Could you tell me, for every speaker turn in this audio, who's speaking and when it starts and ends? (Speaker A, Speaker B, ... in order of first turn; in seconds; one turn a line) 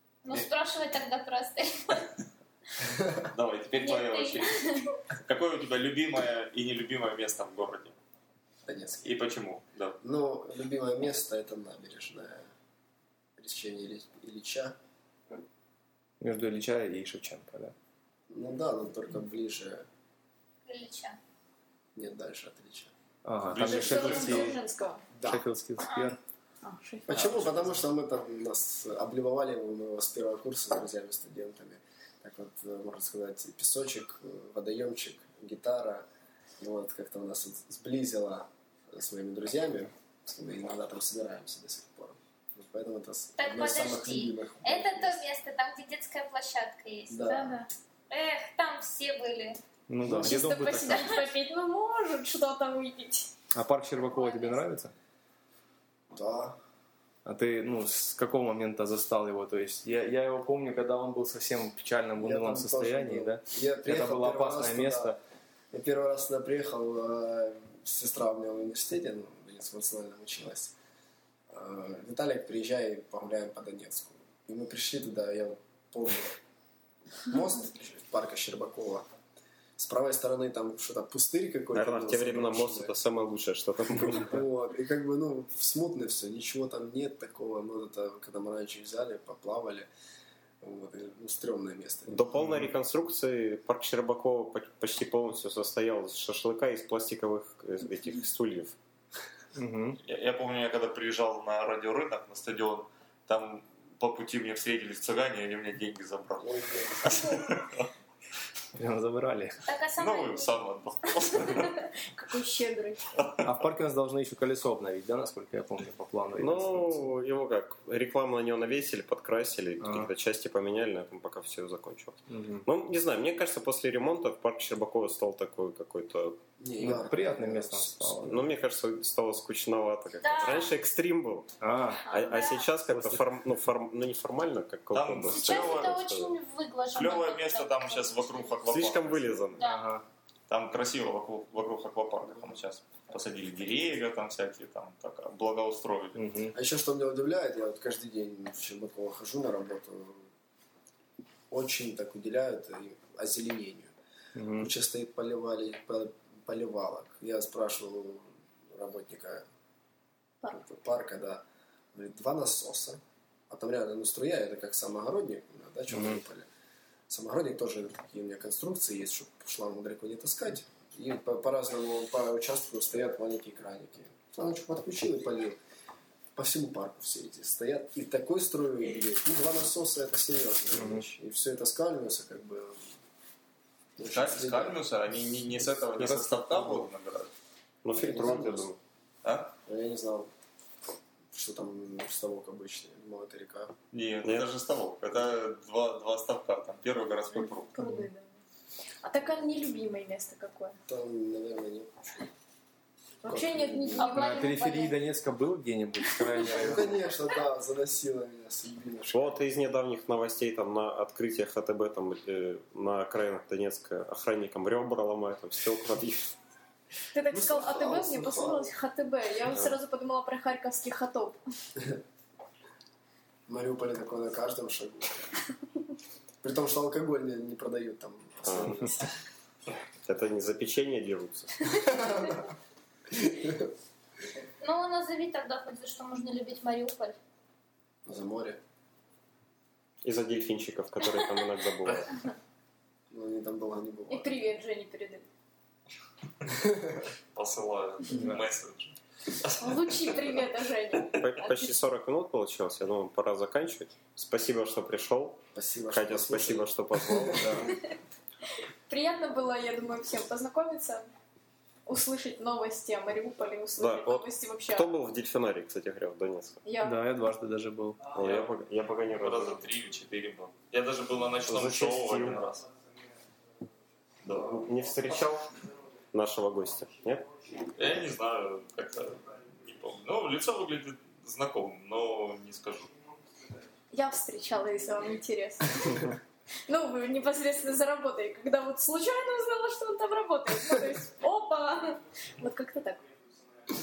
Speaker A: 0.2-2.1
Speaker B: 2.8-3.2
Speaker C: 3.3-4.5
Speaker A: 3.8-4.9
Speaker C: 5.1-7.9
Speaker B: 8.7-9.1
Speaker C: 9.0-10.0
Speaker B: 10.0-12.4
Speaker B: 13.4-14.7
Speaker D: 16.2-17.7
Speaker B: 18.3-19.8
Speaker A: 20.7-21.2
Speaker B: 21.9-22.9
Speaker D: 23.2-24.6
Speaker C: 23.5-24.6
Speaker E: 23.6-25.0
Speaker B: 25.2-25.4
Speaker D: 25.2-26.2
Speaker A: 25.8-26.2
Speaker E: 26.6-27.1
Speaker B: 27.1-36.0
Speaker D: 27.1-27.5
Speaker B: 36.6-45.2
Speaker A: 43.4-49.6
Speaker B: 47.1-47.6
Speaker D: 49.9-51.3
Speaker E: 50.2-53.3
Speaker D: 53.5-54.9
Speaker A: 54.1-54.6
Speaker B: 56.1-56.6
Speaker D: 57.2-65.2
Speaker B: 62.2-65.2
Speaker B: 65.7-70.7
Speaker B: 71.5-76.4
Speaker B: 77.3-79.1
Speaker B: 79.8-82.9
Speaker F: 81.7-84.4
Speaker B: 84.1-89.9
Speaker B: 90.6-92.3
Speaker F: 92.1-98.7
Speaker D: 92.4-92.7
Speaker D: 99.5-100.0
Speaker C: 100.0-107.9
Speaker B: 106.4-107.4
Speaker D: 108.8-109.6
Speaker A: 109.7-110.5
Speaker C: 110.0-111.8
Speaker A: 111.2-111.9
Speaker E: 112.1-113.2
Speaker C: 113.1-113.5
Speaker D: 113.4-117.0
Speaker F: 116.4-126.4
Speaker D: 119.8-120.1
Speaker D: 122.3-122.6
Speaker B: 126.6-128.5
Speaker D: 126.8-128.4
Speaker F: 128.3-131.5
Speaker A: 130.2-130.7
Speaker D: 131.6-132.1
Speaker A: 132.0-132.7
Speaker F: 132.1-136.3
Speaker D: 132.9-133.2
Speaker C: 134.9-136.1
Speaker A: 135.3-138.6
Speaker C: 136.9-139.6
Speaker F: 138.7-139.6
Speaker A: 139.6-139.9
Speaker D: 139.6-140.0
Speaker C: 140.5-146.2
Speaker D: 146.1-146.5
Speaker B: 146.5-150.2
Speaker B: 151.5-153.9
Speaker D: 154.3-154.7
Speaker B: 154.6-159.4
Speaker B: 160.6-166.5
Speaker D: 165.9-166.2
Speaker B: 167.1-175.6
Speaker B: 176.3-182.8
Speaker D: 180.7-181.1
Speaker B: 184.0-184.8
Speaker C: 184.0-187.3
Speaker D: 186.0-186.8
Speaker F: 187.8-188.8
Speaker B: 187.9-188.7
Speaker C: 189.2-189.5
Speaker B: 189.7-190.3
Speaker B: 191.3-193.7
Speaker C: 193.9-197.7
Speaker F: 194.2-194.5
Speaker E: 197.7-198.3
Speaker D: 197.8-198.1
Speaker E: 199.0-200.8
Speaker B: 200.9-202.2
Speaker E: 203.2-204.9
Speaker B: 203.3-204.1
Speaker A: 204.0-204.9
Speaker D: 204.1-207.1
Speaker B: 206.4-209.3
Speaker F: 209.1-216.3
Speaker E: 217.1-221.4
Speaker B: 217.3-218.7
Speaker B: 223.5-225.3
Speaker B: 226.4-229.1
Speaker F: 228.4-228.9
Speaker F: 230.0-231.9
Speaker B: 231.8-232.4
Speaker B: 233.1-233.7
Speaker A: 234.6-237.2
Speaker B: 238.1-238.6
Speaker F: 240.0-242.1
Speaker B: 243.1-244.4
Speaker E: 244.1-245.3
Speaker B: 246.6-247.0
Speaker C: 247.3-249.6
Speaker D: 248.1-248.5
Speaker E: 249.6-251.7
Speaker F: 251.1-257.7
Speaker B: 255.5-257.5
Speaker D: 257.4-257.7
Speaker E: 258.9-261.1
Speaker E: 261.9-264.9
Speaker F: 263.8-266.6
Speaker E: 266.6-267.0
Speaker D: 266.8-268.1
Speaker F: 268.1-269.6
Speaker C: 268.1-268.5
Speaker C: 269.1-272.6
Speaker F: 271.4-272.4
Speaker C: 274.2-274.6
Speaker F: 274.3-275.5
Speaker F: 276.1-277.3
Speaker C: 277.8-282.9
Speaker E: 283.9-286.1
Speaker E: 286.7-293.0